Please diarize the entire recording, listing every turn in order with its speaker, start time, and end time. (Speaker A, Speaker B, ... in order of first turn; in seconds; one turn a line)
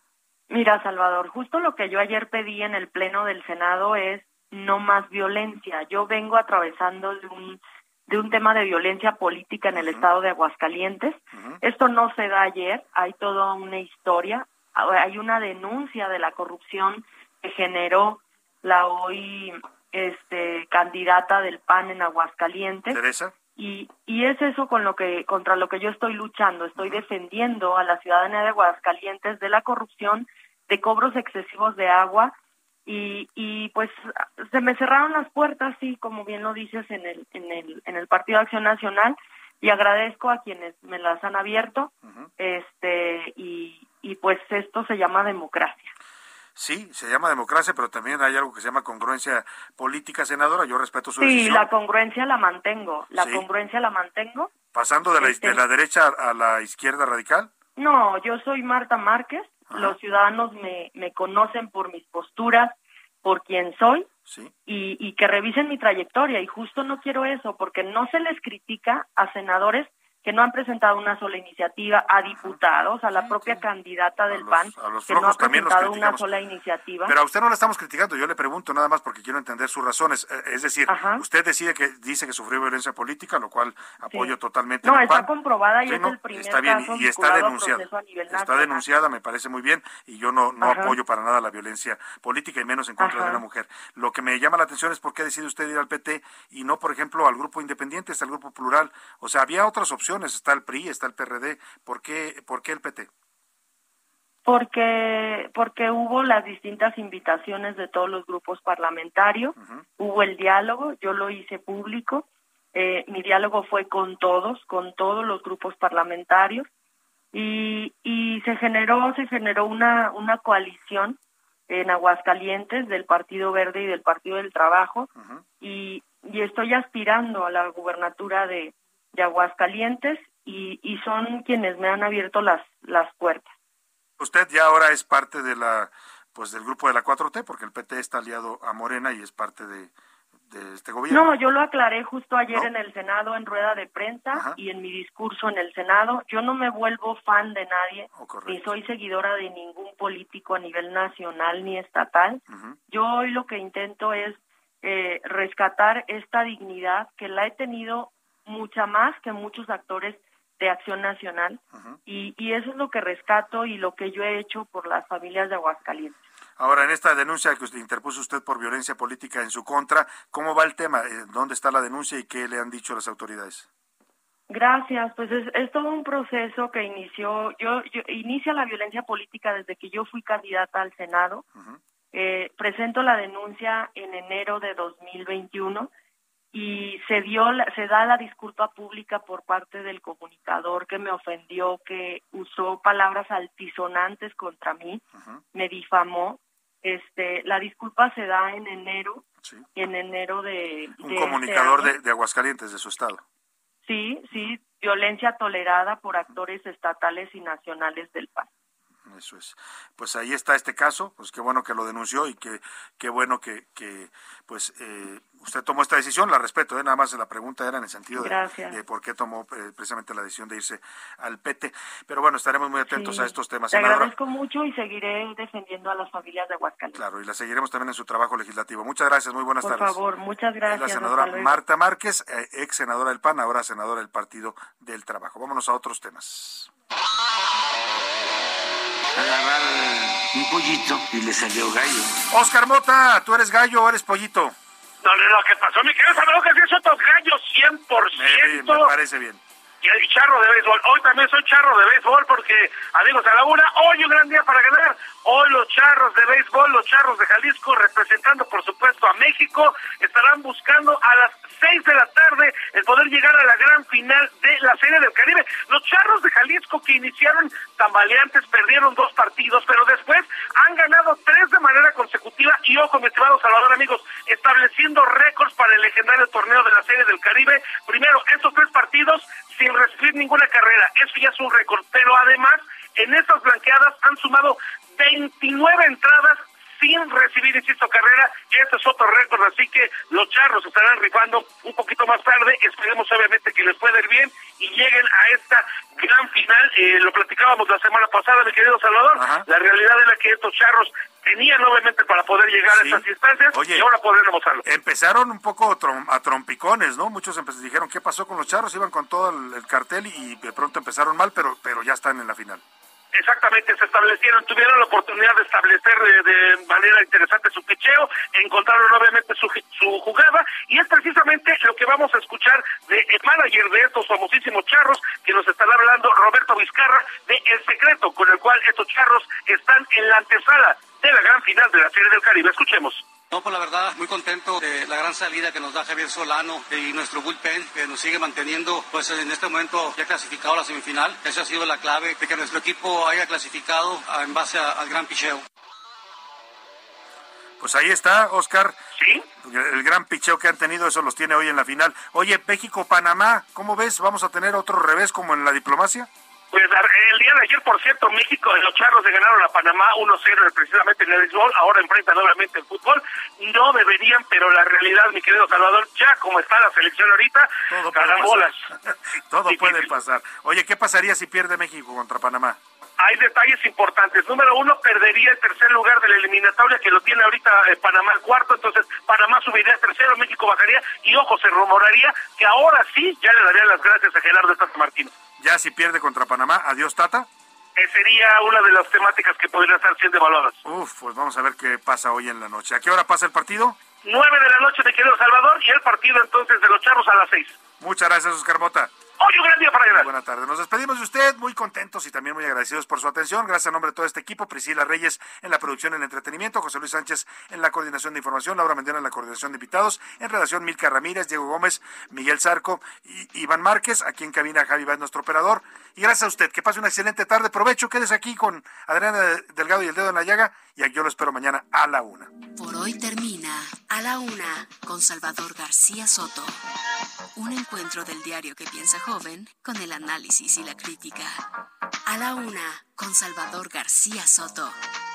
Speaker A: 0.5-23.0
Speaker B: 9.7-10.1
Speaker B: 11.3-11.6
Speaker B: 22.9-23.3
Speaker A: 23.6-32.3
Speaker B: 26.8-27.0
Speaker A: 32.9-45.9
Speaker B: 46.6-51.7
Speaker A: 51.2-54.5
Speaker B: 53.2-53.5
Speaker B: 54.7-57.5
Speaker A: 55.2-55.6
Speaker A: 57.8-64.1
Speaker B: 59.7-60.0
Speaker B: 64.3-64.5
Speaker A: 64.7-77.2
Speaker B: 72.3-72.6
Speaker B: 73.1-73.7
Speaker B: 74.3-76.3
Speaker B: 77.0-85.3
Speaker A: 80.9-81.2
Speaker A: 84.1-88.9
Speaker B: 85.8-103.1
Speaker A: 90.6-91.0
Speaker A: 93.0-93.4
Speaker A: 104.5-116.7
Speaker B: 109.5-109.8
Speaker A: 117.3-125.1
Speaker B: 125.2-125.4
Speaker A: 125.6-133.5
Speaker B: 134.2-139.9
Speaker B: 140.5-141.2
Speaker A: 141.1-166.2
Speaker B: 144.3-144.6
Speaker B: 148.1-148.7
Speaker B: 152.5-152.8
Speaker B: 166.6-173.7
Speaker A: 174.5-181.4
Speaker A: 182.1-185.9
Speaker A: 186.5-195.0
Speaker A: 195.5-199.2
Speaker A: 199.8-201.9
Speaker B: 201.0-203.2
Speaker A: 203.8-208.5
Speaker B: 209.1-224.1
Speaker A: 218.1-218.8
Speaker A: 222.9-227.0
Speaker B: 226.9-230.0
Speaker A: 229.6-231.6
Speaker B: 230.6-236.7
Speaker C: 239.1-242.2
Speaker B: 242.3-244.5
Speaker D: 245.0-248.9
Speaker B: 248.1-249.4
Speaker D: 249.8-304.6
Speaker B: 299.1-299.4
Speaker B: 302.7-303.9
Speaker B: 304.6-312.6
Speaker D: 313.1-333.0
Speaker E: 333.3-345.4
Speaker B: 347.6-348.8
Speaker B: 349.4-356.1
Speaker D: 356.5-368.6
Speaker B: 367.7-368.5
Speaker B: 369.3-372.6
Speaker D: 369.5-369.9
Speaker D: 373.0-385.1
Speaker B: 385.4-387.3
Speaker D: 387.8-390.6
Speaker B: 390.6-393.8
Speaker D: 394.0-397.6
Speaker B: 397.8-398.9
Speaker D: 399.2-400.1
Speaker B: 399.9-422.3
Speaker F: 422.5-426.6
Speaker F: 427.4-431.4
Speaker F: 432.1-434.8